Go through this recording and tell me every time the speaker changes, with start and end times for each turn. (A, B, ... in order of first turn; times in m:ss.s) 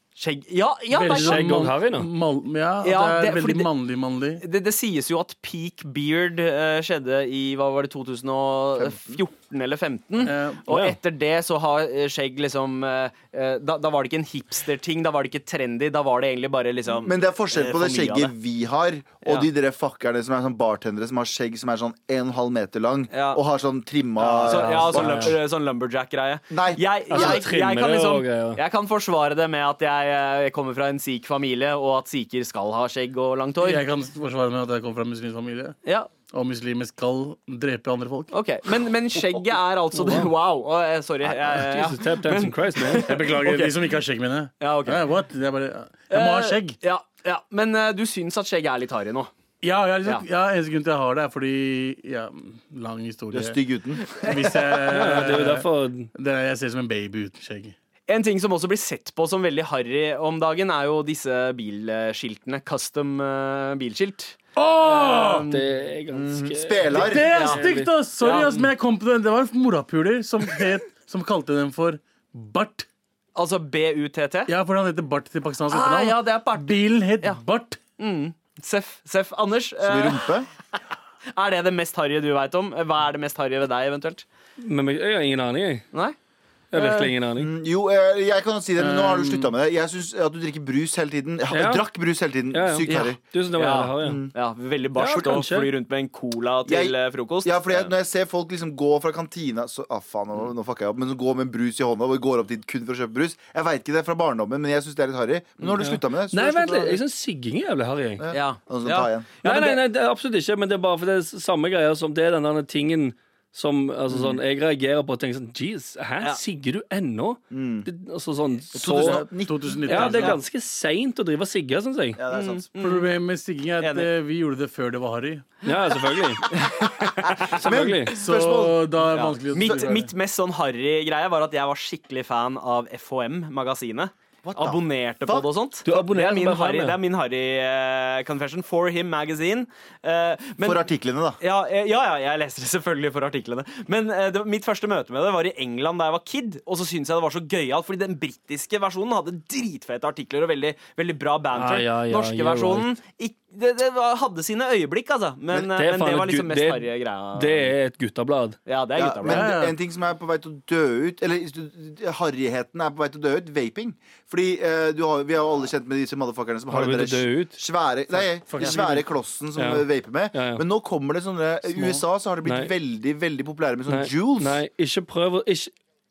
0:00.2-0:01.5 A
0:00.9-0:04.4 B
0:01.1-0:02.1 C
0:02.8-0:03.7 A
0:04.4-0:18.3 A
0:08.8-0:09.2 D
0:10.2-0:10.6 B
0:10.7-0:11.0 C
0:17.0-0:25.4 D
0:23.1-0:23.4 A
0:24.2-0:33.9 A
0:24.5-0:25.4 C
0:26.5-0:27.4 D
0:27.1-0:28.6 C
0:33.6-0:35.8 B
0:35.8-0:36.1 A
0:36.3-0:38.3 B
0:38.3-0:43.8 A
0:40.0-0:40.3 C
0:41.3-0:43.0 C
0:43.1-0:46.8 B
0:44.6-0:45.0 A
0:46.1-0:49.3 A
0:49.6-0:53.6 B
0:53.3-0:54.9 D
0:54.2-0:57.8 B
0:54.9-0:56.1 C
0:58.1-1:05.6 A
1:04.6-1:05.5 B
1:05.5-1:08.7 C
1:06.1-1:07.3 D
1:06.9-1:12.9 B
1:07.3-1:07.6 A
1:08.2-1:08.6 A
1:13.4-1:14.5 A
1:14.5-1:17.8 B
1:15.7-1:17.4 A
1:18.0-1:20.3 A
1:19.8-1:20.5 D
1:21.3-1:24.3 A
1:24.6-1:25.9 C
1:26.7-1:27.5 C
1:26.7-1:33.2 D
1:28.8-1:29.5 B
1:31.5-1:31.9 C
1:32.5-1:34.2 C
1:32.9-1:37.9 A
1:34.0-1:34.3 D
1:35.0-1:35.7 C
1:36.7-1:47.0 D
1:45.8-1:48.3 C
1:48.2-1:49.3 D
1:48.3-1:49.8 A
1:49.4-1:59.3 C
1:54.1-1:54.4 D
1:57.5-1:57.9 D
1:58.7-2:00.1 D
1:58.8-2:00.4 B
1:59.9-2:02.2 C
1:59.9-2:00.4 A
2:02.2-2:02.7 D
2:02.3-2:03.1 A
2:02.8-2:05.5 B
2:03.8-2:04.1 A
2:05.6-2:06.5 C
2:06.5-2:07.6 A
2:07.4-2:08.9 D
2:07.5-2:08.1 C
2:08.2-2:10.1 B
2:09.1-2:20.8 A
2:09.5-2:10.0 D
2:14.4-2:15.5 D
2:15.8-2:17.0 C
2:20.6-2:21.4 D
2:21.4-2:37.7 A
2:31.6-2:32.9 C
2:35.5-2:38.6 C
2:38.7-2:39.5 A
2:39.0-2:54.6 D
2:39.3-2:39.7 B
2:46.7-2:47.6 C
2:48.5-2:49.0 B
2:49.6-2:50.6 C
2:51.8-2:52.7 C
2:53.9-2:55.7 C